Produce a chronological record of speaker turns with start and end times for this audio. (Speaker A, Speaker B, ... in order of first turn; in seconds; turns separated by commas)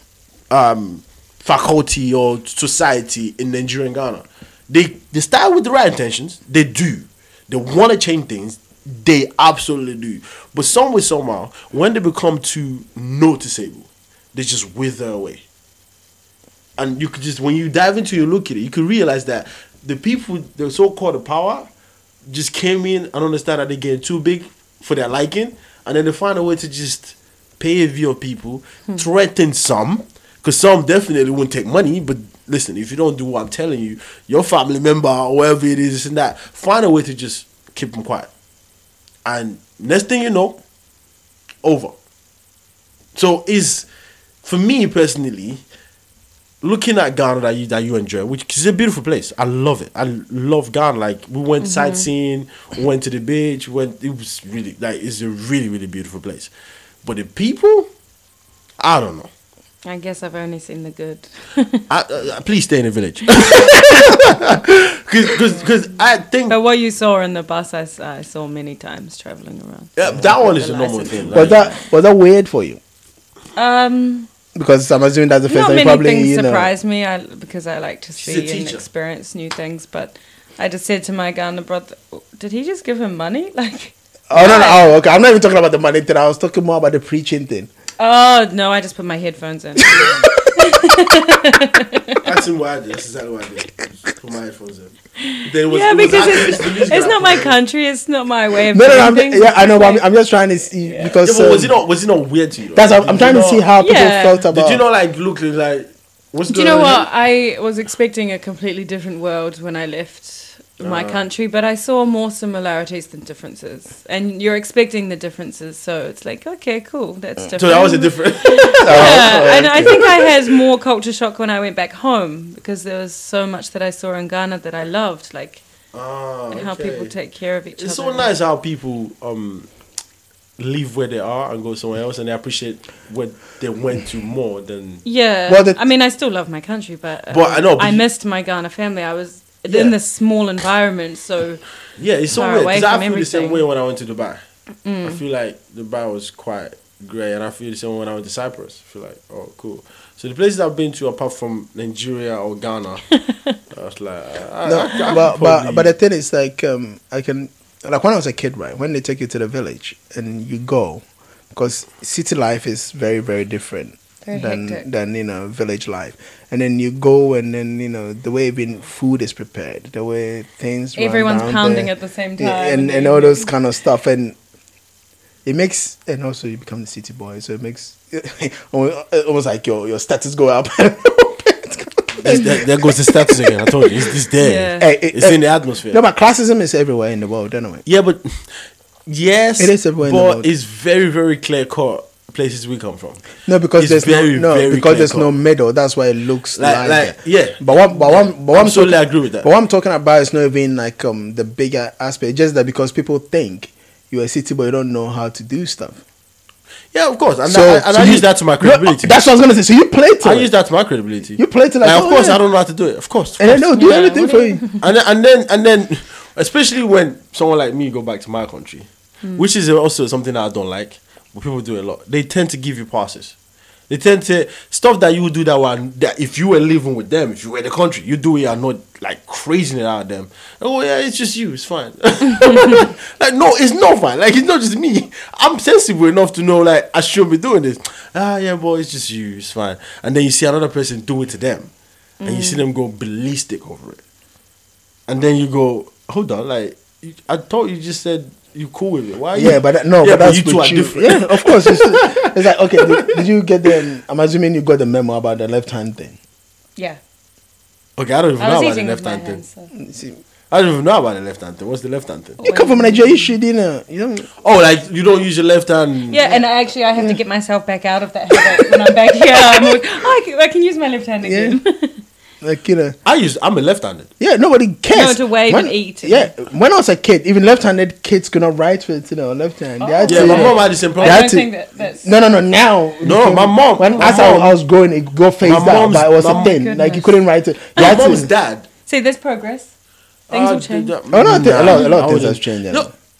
Speaker A: 0.5-15.4, Speaker A: 16.8-21.7, Speaker A: 22.3-38.3, Speaker A: 39.2-40.6, Speaker A: 41.6-41.9, Speaker A: 43.1-43.9, Speaker A: 44.4-45.6, Speaker A: 46.6-56.5, Speaker B: 51.6-52.1, Speaker A: 57.0-57.9, Speaker A: 58.8-59.3, Speaker B: 59.8-61.8, Speaker A: 61.9-66.5, Speaker B: 63.4-63.6, Speaker B: 66.5-71.8, Speaker A: 70.0-71.7, Speaker C: 71.3-72.8, Speaker B: 73.5-74.3, Speaker C: 74.5-76.7, Speaker B: 75.5-84.9, Speaker A: 78.2-78.8, Speaker C: 84.3-87.7, Speaker B: 88.0-92.3, Speaker C: 89.8-90.7, Speaker A: 92.2-97.5, Speaker B: 95.2-100.0, Speaker C: 98.7-101.7, Speaker B: 100.8-101.2, Speaker A: 101.2-103.7, Speaker C: 102.7-104.8, Speaker B: 103.8-104.5, Speaker A: 104.5-107.1, Speaker B: 106.5-125.6, Speaker A: 110.8-111.2, Speaker A: 117.6-119.5, Speaker C: 118.8-120.2, Speaker A: 125.9-127.1, Speaker B: 126.5-128.3, Speaker A: 127.8-129.7, Speaker A: 130.6-135.0, Speaker B: 135.0-141.6, Speaker C: 135.5-135.8, Speaker A: 137.3-138.0, Speaker A: 142.0-144.4, Speaker B: 142.3-143.6, Speaker B: 144.8-145.2, Speaker A: 145.0-153.0, Speaker B: 153.1-153.6, Speaker A: 153.7-155.9, Speaker C: 154.6-161.0, Speaker C: 161.5-174.3, Speaker B: 164.2-164.8, Speaker B: 170.9-173.5, Speaker C: 175.4-183.9, Speaker A: 182.2-186.0, Speaker B: 184.4-184.9, Speaker C: 184.8-187.8, Speaker A: 187.8-188.5, Speaker A: 189.1-193.2, Speaker C: 189.6-190.4, Speaker C: 193.4-206.0, Speaker A: 193.8-195.3, Speaker A: 196.5-199.5, Speaker A: 206.9-209.1, Speaker C: 207.4-210.5, Speaker A: 210.2-213.7, Speaker C: 211.4-212.4, Speaker C: 213.4-214.6, Speaker B: 213.7-214.8, Speaker A: 214.8-223.3, Speaker A: 223.9-241.7, Speaker B: 242.2-242.6, Speaker A: 242.2-244.0, Speaker A: 245.1-253.2, Speaker C: 249.3-256.2, Speaker A: 258.0-259.4, Speaker B: 258.4-259.7, Speaker C: 259.8-260.2, Speaker A: 260.5-262.4, Speaker B: 262.4-263.3, Speaker C: 262.4-264.3, Speaker A: 264.4-266.2, Speaker B: 266.1-272.0, Speaker C: 268.3-269.8, Speaker C: 271.2-271.6, Speaker C: 272.4-272.9, Speaker A: 273.0-274.1, Speaker C: 274.2-281.5, Speaker B: 274.9-276.3, Speaker B: 279.8-282.1, Speaker A: 280.1-281.3, Speaker C: 282.0-288.3, Speaker A: 283.0-284.6, Speaker A: 285.4-286.5, Speaker B: 286.2-287.2, Speaker A: 287.8-288.7, Speaker B: 288.9-289.7, Speaker B: 290.3-290.9, Speaker A: 290.3-292.9, Speaker C: 291.1-292.9, Speaker B: 291.7-291.9